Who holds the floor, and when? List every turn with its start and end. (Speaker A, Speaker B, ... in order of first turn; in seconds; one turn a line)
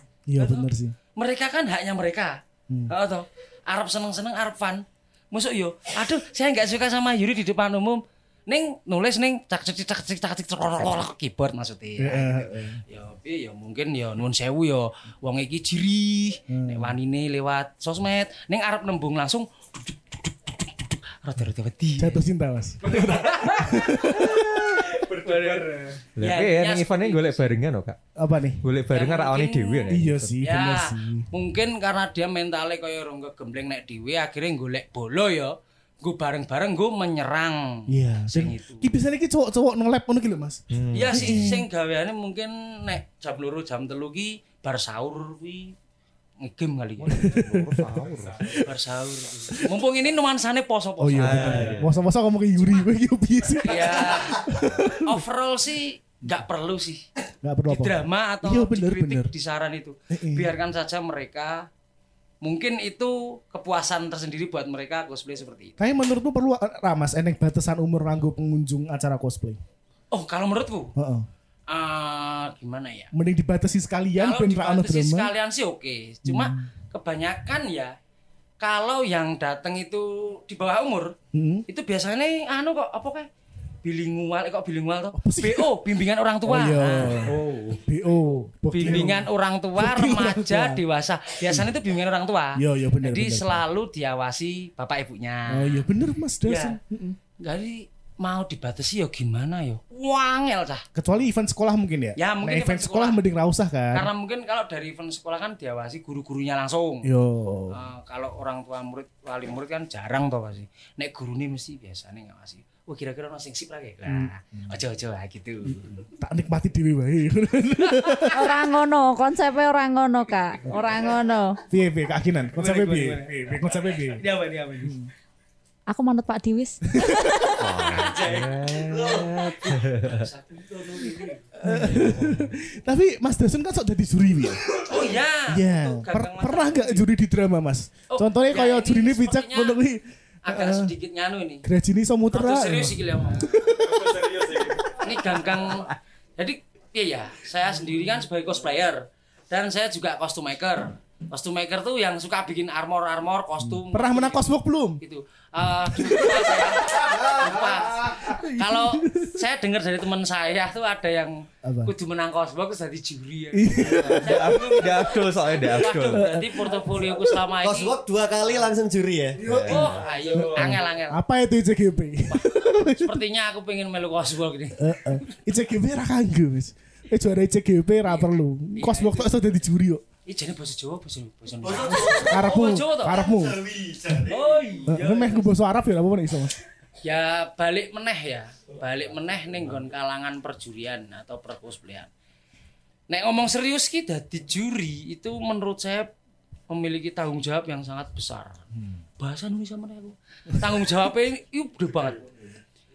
Speaker A: 0.3-0.9
Speaker B: 0.4-22.2
Speaker A: 2.7-3.0
Speaker A: 12.0-12.8
Speaker A: 16.5-17.0
Speaker A: 22.0-25.0
Speaker B: 23.2-24.2
Speaker B: 25.0-27.5
Speaker C: 26.2-28.0
Speaker A: 28.2-28.7
Speaker C: 28.6-30.4
Speaker B: 28.9-38.9
Speaker A: 29.9-31.3
Speaker A: 37.9-41.7
Speaker C: 40.7-41.6
Speaker B: 40.9-45.8
Speaker B: 46.4-47.4
Speaker A: 47.1-48.0
Speaker C: 47.1-48.6
Speaker B: 48.6-51.8
Speaker A: 51.0-55.2
Speaker C: 51.1-52.0
Speaker B: 53.6-57.0
Speaker A: 57.4-59.3
Speaker B: 57.7-61.7
Speaker A: 60.1-60.5
Speaker B: 62.4-65.8
Speaker A: 65.8-69.6
Speaker B: 70.1-70.9
Speaker A: 71.0-71.3
Speaker B: 71.7-73.1
Speaker A: 73.1-75.3
Speaker B: 74.2-78.0
Speaker A: 76.2-76.7
Speaker B: 78.6-81.2
Speaker A: 81.3-81.7
Speaker B: 81.7-83.3
Speaker B: 83.8-87.3
Speaker A: 85.1-85.8
Speaker A: 86.4-90.8
Speaker C: 87.2-87.8
Speaker B: 88.7-95.8
Speaker A: 92.5-93.7
Speaker A: 95.5-97.2
Speaker B: 96.4-96.8
Speaker B: 97.4-100.8
Speaker A: 101.0-104.1
Speaker B: 102.2-103.2
Speaker B: 103.9-107.1
Speaker A: 107.0-107.8
Speaker B: 107.7-116.0
Speaker A: 114.1-114.8
Speaker A: 115.7-118.5
Speaker D: 118.3-121.6
Speaker A: 121.7-124.2
Speaker B: 122.5-125.0
Speaker A: 124.8-125.1
Speaker D: 125.9-127.7
Speaker A: 127.0-127.3
Speaker C: 127.6-130.2
Speaker B: 127.7-131.7
Speaker A: 131.6-140.9
Speaker C: 131.8-132.4
Speaker B: 134.8-137.1
Speaker B: 138.1-139.8
Speaker B: 140.4-141.6
Speaker A: 141.6-144.5
Speaker B: 142.3-143.7
Speaker B: 144.9-168.0
Speaker A: 153.6-155.0
Speaker A: 156.0-156.2
Speaker E: 157.1-157.5
Speaker A: 158.1-159.4
Speaker A: 161.6-161.9
Speaker A: 163.5-165.0
Speaker C: 164.2-166.3
Speaker A: 166.0-167.3
Speaker E: 167.6-169.4
Speaker C: 169.4-170.1
Speaker A: 169.4-173.2
Speaker B: 169.7-171.2
Speaker B: 172.3-174.8
Speaker A: 174.8-180.0
Speaker B: 178.0-179.4
Speaker B: 180.3-183.3
Speaker E: 181.6-182.6
Speaker A: 181.9-183.6
Speaker E: 183.1-184.5
Speaker B: 184.3-185.5
Speaker A: 184.9-186.6
Speaker B: 187.0-192.1
Speaker B: 193.1-196.1
Speaker B: 196.7-198.6
Speaker B: 199.2-202.3